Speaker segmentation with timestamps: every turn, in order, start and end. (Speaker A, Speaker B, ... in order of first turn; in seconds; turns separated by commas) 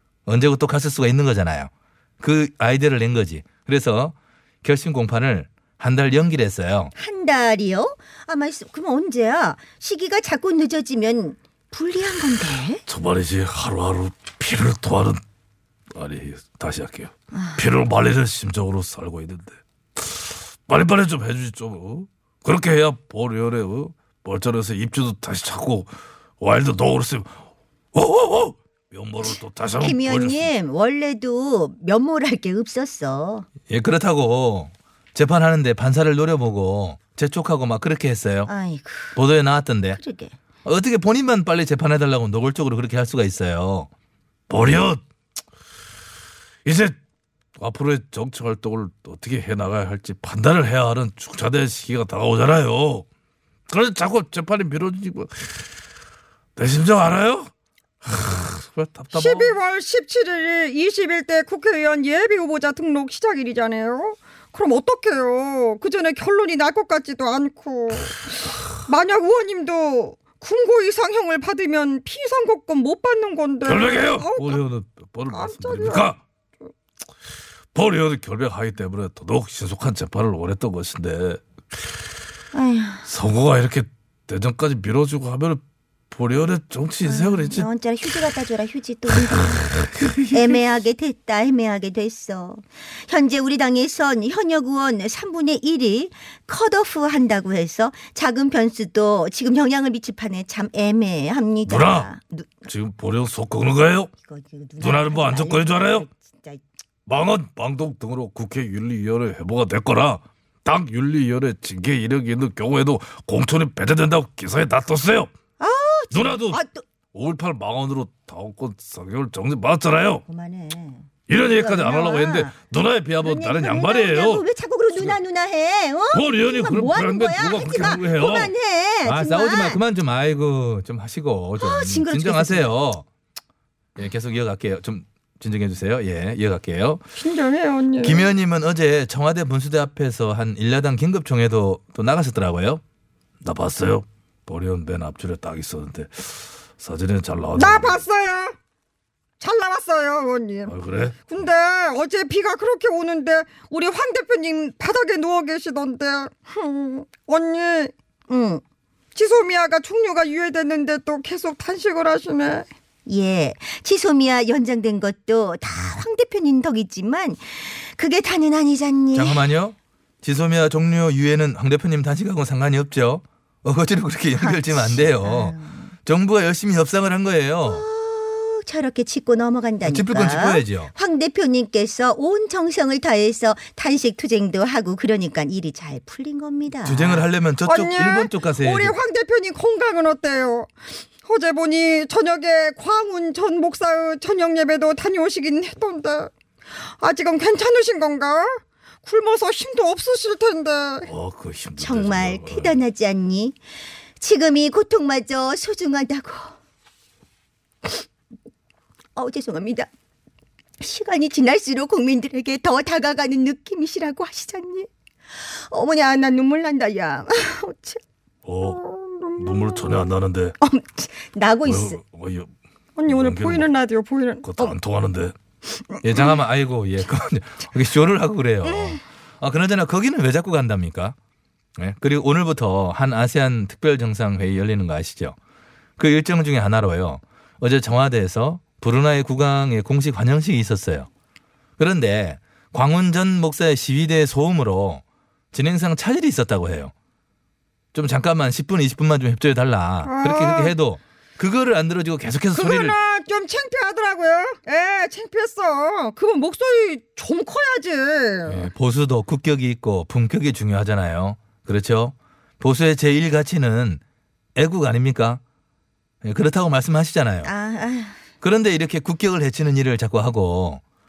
Speaker A: 0.3-6.9, Speaker B: 7.0-12.8, Speaker C: 12.9-15.2, Speaker C: 15.9-27.4, Speaker B: 17.3-17.6, Speaker C: 27.9-30.5, Speaker B: 29.8-33.5, Speaker A: 33.7-38.5, Speaker B: 38.5-39.2, Speaker A: 39.1-40.0, Speaker B: 39.9-40.4, Speaker A: 40.6-43.9, Speaker C: 44.5-45.0, Speaker C: 46.6-46.9, Speaker C: 47.6-53.0, Speaker C: 53.7-55.7, Speaker C: 56.6-57.5, Speaker C: 58.0-59.0, Speaker A: 59.1-59.5, Speaker D: 59.1-68.2, Speaker D: 68.9-74.6, Speaker C: 73.7-76.2, Speaker D: 75.3-76.1, Speaker C: 77.7-81.4, Speaker B: 82.5-83.1, Speaker C: 83.0-87.7, Speaker B: 87.0-89.8, Speaker B: 90.3-102.7, Speaker C: 101.7-102.1, Speaker C: 102.7-104.1, Speaker B: 104.2-106.6, Speaker C: 104.8-106.0, Speaker C: 107.1-115.3, Speaker B: 115.6-116.8, Speaker C: 116.1-116.6, Speaker C: 117.1-120.2, Speaker B: 120.2-122.5, Speaker C: 121.3-124.4, Speaker B: 123.2-129.8, Speaker C: 126.1-128.5, Speaker A: 129.0-133.1, Speaker B: 131.6-132.7, Speaker A: 133.9-137.1, Speaker D: 137.2-138.3, Speaker A: 138.0-142.8, Speaker C: 143.4-148.0, Speaker D: 147.6-148.5, Speaker D: 149.4-150.8, Speaker C: 150.7-151.2, Speaker D: 151.3-157.9, Speaker B: 158.3-158.6, Speaker D: 159.1-162.7, Speaker B: 163.1-169.4, Speaker A: 169.1-177.8, Speaker B: 174.4-175.9, Speaker B: 177.6-187.3, Speaker A: 179.8-180.9, Speaker A: 186.8-188.9, Speaker D: 187.6-190.7, Speaker D: 191.2-196.3, Speaker D: 197.0-201.1, Speaker C: 201.0-202.7, Speaker B: 201.8-203.6, Speaker B: 204.2-206.5, Speaker B: 209.2-209.9, Speaker B: 210.8-218.0, Speaker C: 218.4-218.8, Speaker D: 218.6-220.1, Speaker C: 219.4-220.5, Speaker B: 220.6-222.0, Speaker C: 221.7-222.5, Speaker D: 223.0-224.6, Speaker C: 223.1-223.7, Speaker C: 224.4-225.3, Speaker A: 226.0-231.2, Speaker A: 231.8-235.3, Speaker A: 236.0-241.1, Speaker A: 241.8-245.0, Speaker A: 245.5-246.9, Speaker A: 247.9-252.9, Speaker D: 250.0-250.7, Speaker D: 252.5-258.7, Speaker A: 258.5-264.0, Speaker A: 264.6-265.4, Speaker A: 266.2-267.5, Speaker B: 267.4-268.2, Speaker A: 268.4-270.8